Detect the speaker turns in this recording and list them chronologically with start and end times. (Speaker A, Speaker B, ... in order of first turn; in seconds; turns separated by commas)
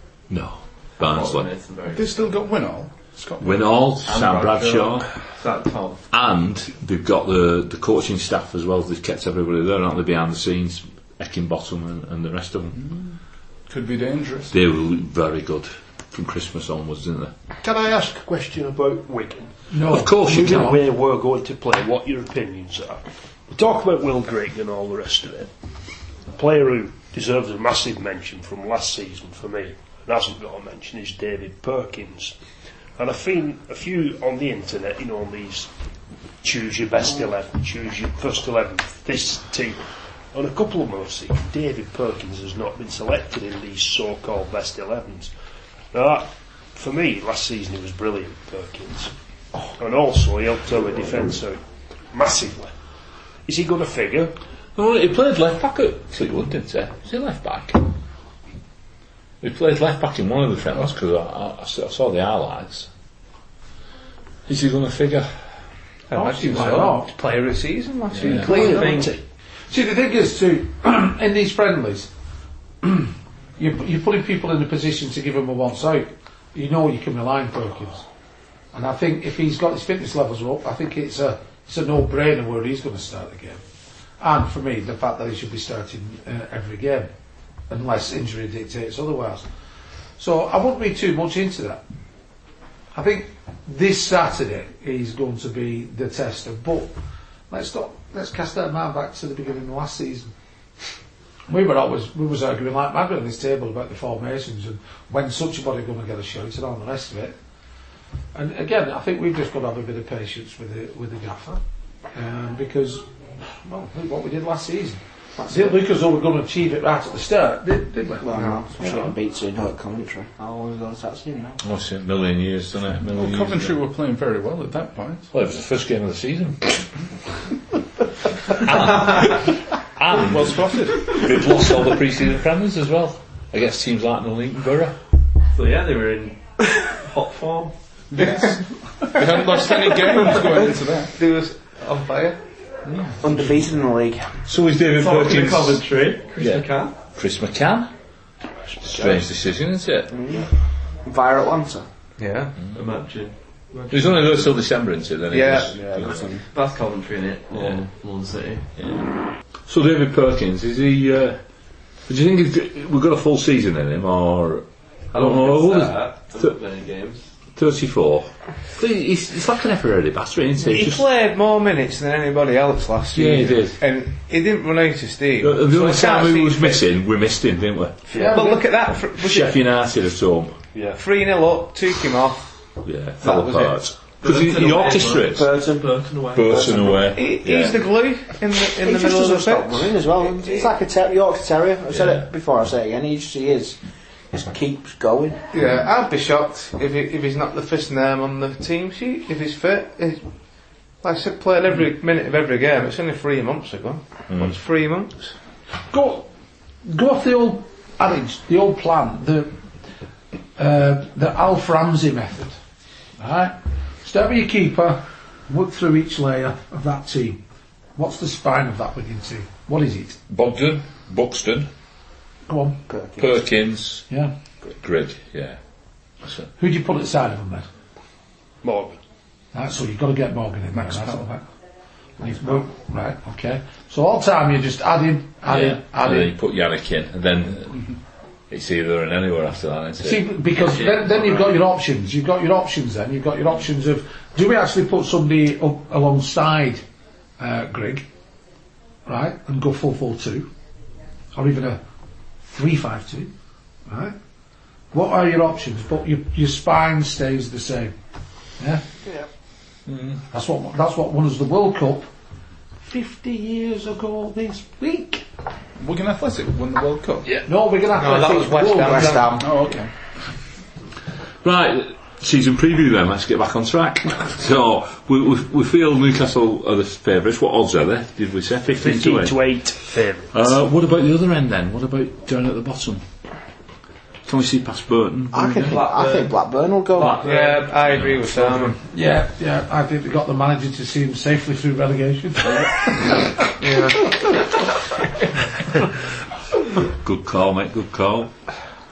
Speaker A: 0.3-1.5, Speaker B: 1.0-2.4, Speaker C: 1.9-3.7, Speaker A: 3.4-5.1, Speaker B: 4.0-6.0, Speaker A: 6.1-12.8, Speaker C: 12.8-14.5, Speaker A: 14.5-17.3, Speaker D: 17.6-19.6, Speaker E: 19.7-20.8, Speaker A: 19.9-20.8, Speaker D: 20.2-25.5, Speaker D: 26.3-32.4, Speaker D: 33.0-35.7, Speaker D: 36.4-45.3, Speaker D: 45.9-49.1, Speaker D: 49.8-52.7, Speaker D: 53.5-54.4, Speaker A: 54.8-57.9, Speaker A: 59.4-62.9, Speaker A: 64.5-65.3, Speaker F: 66.1-69.1, Speaker E: 66.1-67.1, Speaker A: 68.1-68.5, Speaker D: 68.3-69.2, Speaker E: 68.4-69.0, Speaker B: 68.5-69.1, Speaker E: 69.7-72.1, Speaker E: 72.8-78.0, Speaker E: 78.7-83.6, Speaker E: 84.2-87.1, Speaker E: 87.7-89.5, Speaker E: 90.2-91.8, Speaker E: 92.9-96.9, Speaker E: 97.5-100.3, Speaker E: 101.5-107.4, Speaker E: 108.3-111.6, Speaker E: 112.1-119.2, Speaker G: 115.4-115.8, Speaker G: 118.2-121.6, Speaker A: 121.6-123.8, Speaker C: 123.1-125.3, Speaker A: 125.3-126.9, Speaker A: 128.5-135.0, Speaker C: 130.1-131.3, Speaker B: 135.5-137.7, Speaker C: 138.1-141.2, Speaker F: 141.2-142.4, Speaker G: 143.2-144.3, Speaker A: 144.5-145.8, Speaker B: 144.9-147.0, Speaker A: 146.4-147.9, Speaker A: 148.8-150.1, Speaker D: 148.8-149.2, Speaker G: 150.1-150.5, Speaker G: 151.0-151.9, Speaker F: 152.2-152.6, Speaker A: 152.6-152.8, Speaker B: 152.7-154.5, Speaker A: 153.9-156.3, Speaker F: 155.3-155.7, Speaker D: 155.8-156.1, Speaker G: 155.9-156.4, Speaker B: 156.5-159.0, Speaker A: 159.7-161.4, Speaker A: 162.1-166.5, Speaker B: 165.1-167.3, Speaker A: 167.6-171.0, Speaker F: 170.6-176.8, Speaker A: 173.1-173.8, Speaker A: 175.4-178.0, Speaker D: 178.1-178.5, Speaker E: 178.1-178.6, Speaker F: 178.2-179.6, Speaker A: 179.1-180.6, Speaker D: 180.7-181.0, Speaker F: 181.0-182.5, Speaker A: 182.8-185.5, Speaker F: 183.2-183.8, Speaker B: 184.2-187.1, Speaker G: 185.3-185.8, Speaker A: 186.3-187.8, Speaker G: 186.4-187.1, Speaker F: 187.1-190.6, Speaker G: 188.8-193.8, Speaker A: 191.9-192.3, Speaker G: 194.3-195.4, Speaker F: 195.5-200.3, Speaker F: 201.0-205.3, Speaker A: 204.3-204.5, Speaker E: 205.9-206.3, Speaker E: 206.8-209.6, Speaker E: 210.6-212.6, Speaker E: 213.2-217.4, Speaker E: 217.9-220.2, Speaker A: 220.3-221.7, Speaker E: 222.5-222.8, Speaker G: 222.9-223.4, Speaker A: 223.2-224.1, Speaker A: 224.7-225.6, Speaker E: 226.6-227.7, Speaker D: 228.6-229.0, Speaker E: 229.5-231.4, Speaker C: 230.7-231.2, Speaker E: 232.2-236.4, Speaker A: 235.5-237.9, Speaker A: 238.5-240.3, Speaker E: 240.0-246.8, Speaker B: 240.6-241.6, Speaker E: 247.4-248.1, Speaker E: 249.1-250.5, Speaker E: 251.3-251.8, Speaker E: 252.4-253.3, Speaker E: 253.9-254.2, Speaker E: 254.9-257.9, Speaker E: 258.6-258.9, Speaker A: 259.9-260.2, Speaker E: 260.3-262.1, Speaker E: 262.8-265.3, Speaker C: 265.8-267.3, Speaker E: 267.3-269.4, Speaker F: 267.9-269.4, Speaker G: 268.8-269.6, Speaker C: 269.4-269.9, Speaker A: 271.4-279.6, Speaker D: 278.7-280.5, Speaker A: 280.3-283.0, Speaker A: 284.3-285.8, Speaker G: 285.3-287.2, Speaker B: 285.6-286.4, Speaker B: 286.9-287.8, Speaker F: 287.2-288.8, Speaker A: 287.9-288.2, Speaker E: 288.8-293.3, Speaker F: 293.6-294.1, Speaker A: 296.9-298.3